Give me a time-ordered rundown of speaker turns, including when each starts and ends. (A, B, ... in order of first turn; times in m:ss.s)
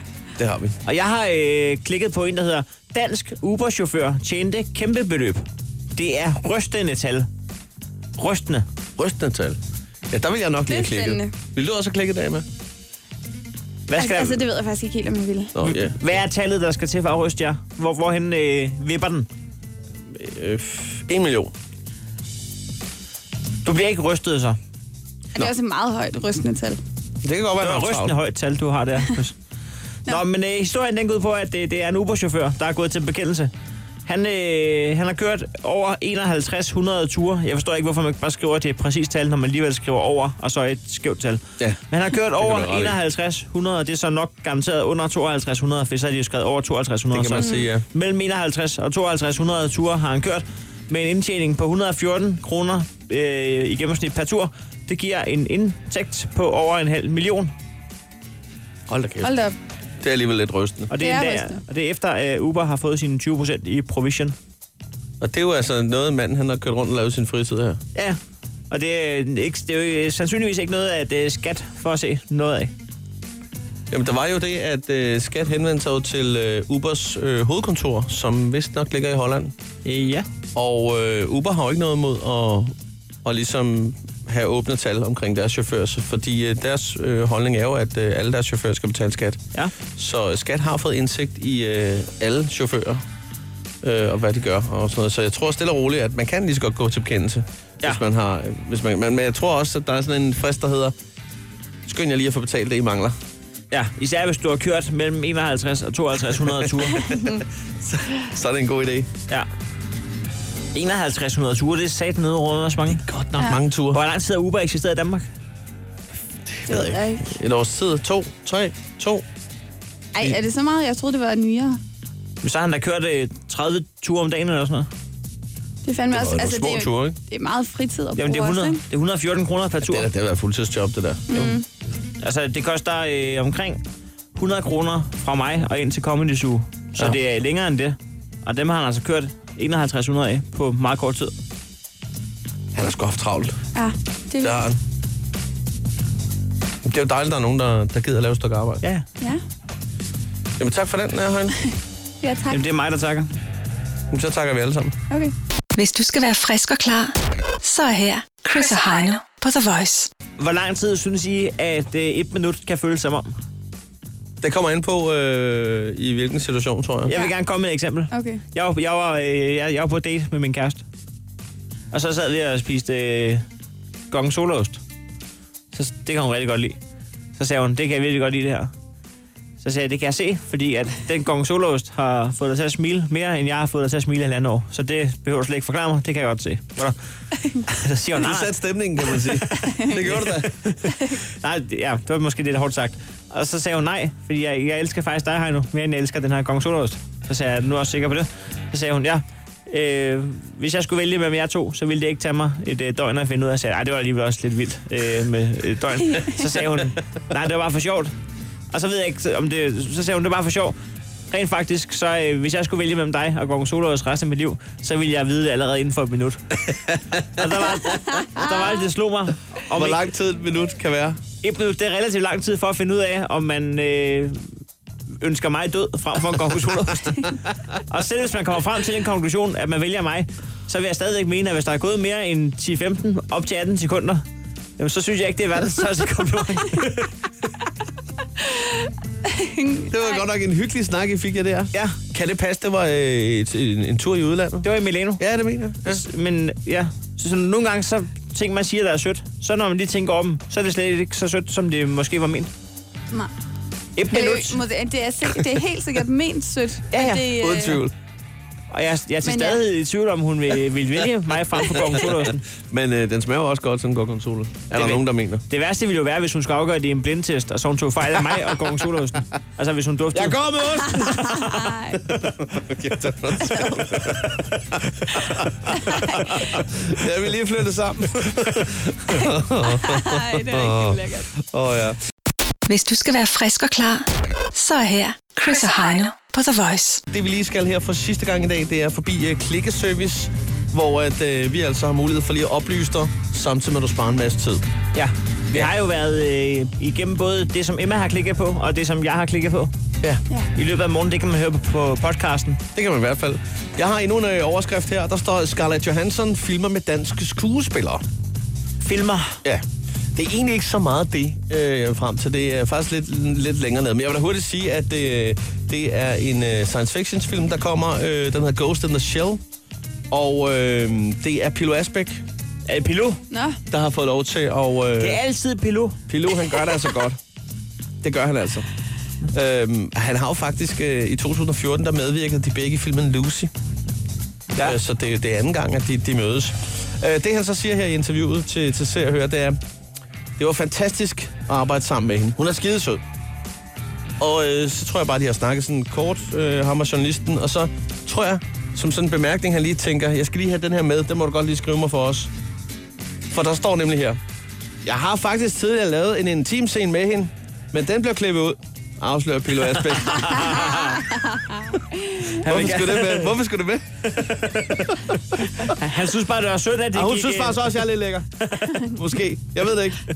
0:00.4-0:00.8 A
0:00.8-0:05.4 B
0:05.9-0:07.3 B
0:08.2-0:08.6 B
0:09.0-0:09.6 A
0:10.1-0:12.4 A
0:10.7-0:11.3 C
0:13.9-0:14.4 B
0:14.0-0:15.5 C
0:15.5-0:16.1 A
0:15.6-0:19.3 B
0:20.1-0:21.5 A
0:23.6-0:24.6 B
0:25.3-0:26.8 C
0:27.2-0:28.1 A
0:27.6-0:29.4 B
0:30.0-0:33.5 B
0:34.0-0:57.5 B
0:41.6-0:43.0 A
0:47.1-0:47.8 A
0:58.9-0:59.4 A
0:59.2-0:59.5 C
1:00.0-1:00.9 A
1:00.9-1:04.4 B
1:01.0-1:01.6 C
1:05.2-1:07.8 A
1:08.7-1:12.7 B
1:13.9-1:19.5 A
1:19.8-1:20.2 B
1:20.5-1:22.7 A
1:23.2-1:33.0 A
1:33.8-1:40.9 A
1:41.8-1:43.2 A
1:43.7-1:47.1 B
1:46.6-1:49.1 A
1:47.1-1:47.4 C
1:50.7-1:53.0 B
1:52.9-1:54.0 A
1:53.9-1:55.3 B
1:56.5-1:59.2 A
1:56.7-1:57.3 C
2:00.1-2:01.8 C
2:02.4-2:04.9 B
2:05.8-2:08.8 C
2:06.1-2:07.2 A
2:08.2-2:10.1 B
2:09.8-2:11.6 A
2:11.3-2:11.6 C
2:12.2-2:13.8 B
2:14.3-2:21.3 B
2:22.7-2:23.6 A
2:23.7-2:24.6 C
2:24.4-2:24.8 A
2:26.8-2:28.8 A
2:30.6-2:31.6 A
2:32.2-2:32.7 C
2:32.5-2:33.3 B
2:34.1-2:35.0 A
2:35.7-2:40.1 D
2:40.4-2:43.3 B
2:44.4-2:47.1 A
2:47.1-2:50.8 B
2:48.1-2:48.4 C
2:51.9-2:53.4 B
2:54.1-2:54.8 B
2:55.7-2:56.8 B
2:57.4-2:58.7 B
2:59.6-3:07.0 B
3:07.7-3:08.6 B
3:08.2-3:10.6 A
3:09.1-3:28.1 B
3:26.0-3:26.4 C
3:28.7-3:30.8 B
3:31.3-3:36.4 B
3:36.7-3:37.6 A
3:37.4-3:40.0 B
3:39.7-3:41.2 A
3:41.4-3:44.4 B
3:45.2-3:47.4 B
3:47.9-3:54.2 B
3:54.8-3:57.1 B
3:58.5-4:00.2 C
3:59.9-4:04.7 A
4:04.6-4:05.2 B
4:05.2-4:06.0 A
4:05.8-4:12.5 B
4:14.0-4:14.6 B
4:14.1-4:17.8 C
4:16.9-4:17.3 B
4:17.3-4:17.9 A
4:18.7-4:22.4 B
4:19.2-4:19.6 C
4:21.8-4:25.4 A
4:24.7-4:30.4 B
4:30.1-4:42.0 A
4:31.0-4:32.0 C
4:33.4-4:34.1 C
4:35.8-4:36.4 C
4:39.7-4:41.3 C
4:42.7-4:47.0 D
4:47.1-4:54.6 A
4:54.9-4:59.7 B
5:00.5-5:02.6 B
5:02.7-5:08.0 A
5:08.8-5:09.4 B
5:09.4-5:19.4 A
5:20.1-5:22.2 A
5:22.7-5:23.2 B
5:23.3-5:23.6 C
5:23.7-5:25.2 A
5:25.0-5:26.0 B
5:26.1-5:27.2 A
5:28.0-5:28.7 A
5:29.3-5:33.5 A
5:34.6-5:39.6 A
5:40.4-5:43.0 A
5:44.2-5:52.3 A
5:53.3-5:54.2 A
5:54.8-6:01.0 A
6:00.0-6:01.0 B
6:02.4-6:03.3 B
6:02.4-6:05.7 A
6:05.5-6:07.7 B
6:06.9-6:10.0 A
6:08.5-6:08.8 B